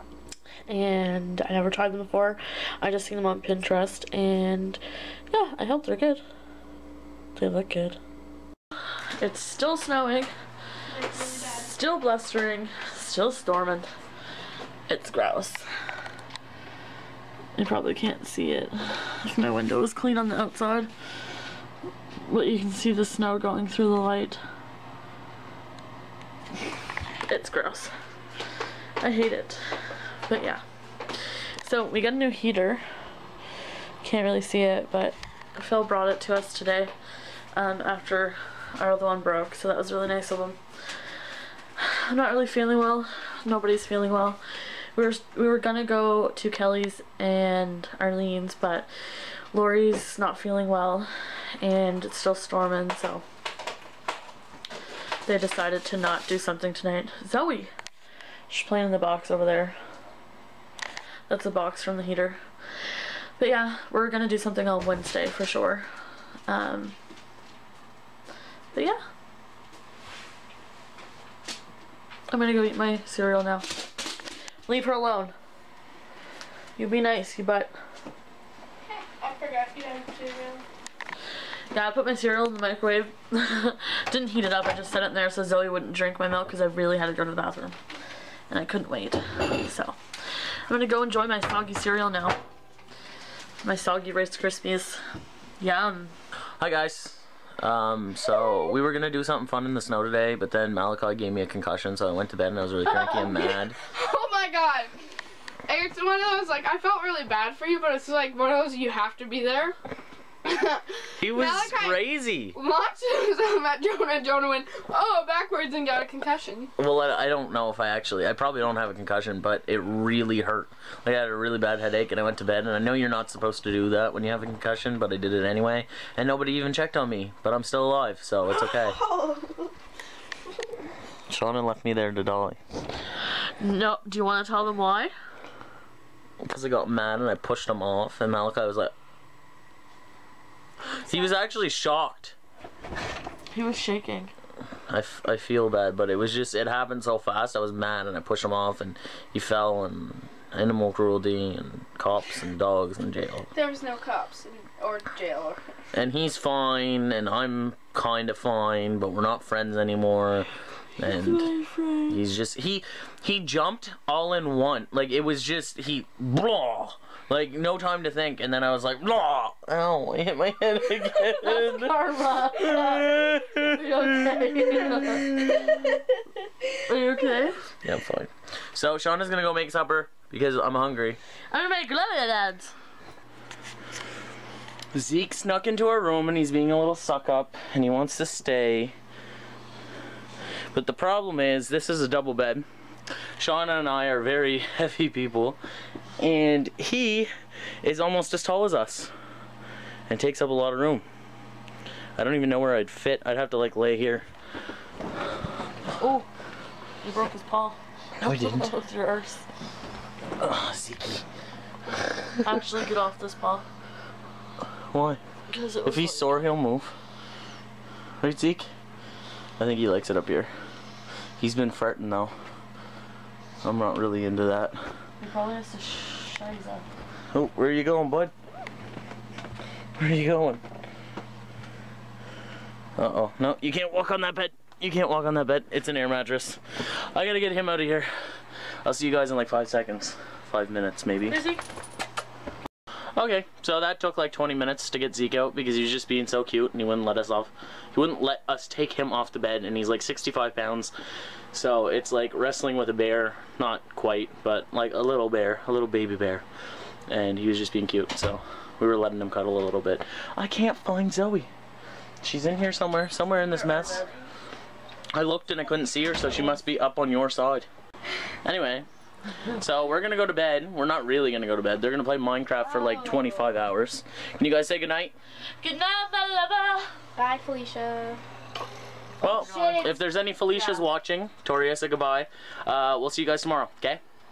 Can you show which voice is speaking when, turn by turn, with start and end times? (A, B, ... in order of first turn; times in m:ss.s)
0:00.7-0:06.2 A
0:07.4-0:08.0 A
0:09.2-0:10.3 A
0:11.0-0:11.6 B
0:11.0-0:13.9 A
0:14.9-0:15.6 A
0:17.6-0:20.9 A
0:22.2-0:24.4 A
0:27.3-0:27.9 A
0:29.0-0:30.6 A
0:31.2-0:32.8 A
0:34.0-0:36.9 A
0:37.5-0:40.6 A
0:41.8-0:44.4 A
0:45.0-0:48.9 A
0:49.5-0:53.2 A
0:55.3-0:57.7 A
0:58.5-0:59.8 A
1:01.3-1:02.4 A
1:03.4-1:05.9 A
1:06.5-1:07.0 A
1:08.7-1:09.0 A
1:12.3-1:13.8 A
1:14.7-1:15.3 A
1:16.8-1:17.7 A
1:19.0-1:20.6 B
1:21.7-1:27.8 A
1:28.5-1:32.4 A
1:33.6-1:35.0 A
1:35.6-1:36.1 A
1:36.6-1:43.8 C
1:42.9-1:44.9 B
1:45.7-1:49.8 B
1:50.4-1:56.7 B
1:51.2-1:52.6 C
1:56.8-2:09.0 C
2:08.6-2:09.7 B
2:11.3-2:12.6 C
2:13.6-2:15.1 A
2:16.4-2:18.9 C
2:21.0-2:22.4 C
2:23.5-2:24.3 A
2:24.9-2:33.5 C
2:33.5-2:35.6 B
2:35.9-2:41.5 C
2:41.0-2:42.2 A
2:42.1-2:51.9 C
2:51.1-2:55.8 A
2:52.6-2:53.9 C
2:56.9-2:57.5 A
2:57.8-3:01.2 C
3:01.5-3:02.7 A
3:04.9-3:09.0 C
3:10.7-3:12.6 C
3:13.4-3:15.6 C
3:16.2-3:17.3 C
3:17.8-3:19.1 C
3:20.1-3:21.0 C
3:22.2-3:24.2 C
3:26.0-3:26.3 A
3:27.0-3:29.5 A
3:28.2-3:28.7 C
3:30.4-3:31.2 C
3:32.4-3:33.6 A
3:34.9-3:35.2 C
3:35.5-3:36.3 A
3:35.8-3:36.9 C
3:38.2-3:38.7 C
3:39.6-3:40.5 C
3:41.4-3:42.3 C
3:43.6-3:44.8 C
3:45.2-3:46.9 A
3:47.3-3:48.3 C
3:50.0-3:50.6 C
3:53.0-3:58.1 C
3:58.8-4:01.4 C
4:01.3-4:01.6 A
4:03.2-4:10.9 C
4:11.5-4:16.4 C
4:17.1-4:21.5 C
4:22.2-4:24.0 C
4:23.7-4:24.1 A
4:25.1-4:27.7 C
4:28.4-4:28.9 C
4:29.5-4:35.1 C
4:32.8-4:33.2 A
4:35.6-4:36.9 A
4:37.2-4:38.2 B
4:39.2-4:44.0 C
4:39.2-4:39.9 A
4:39.3-4:39.9 B
4:40.4-4:40.9 A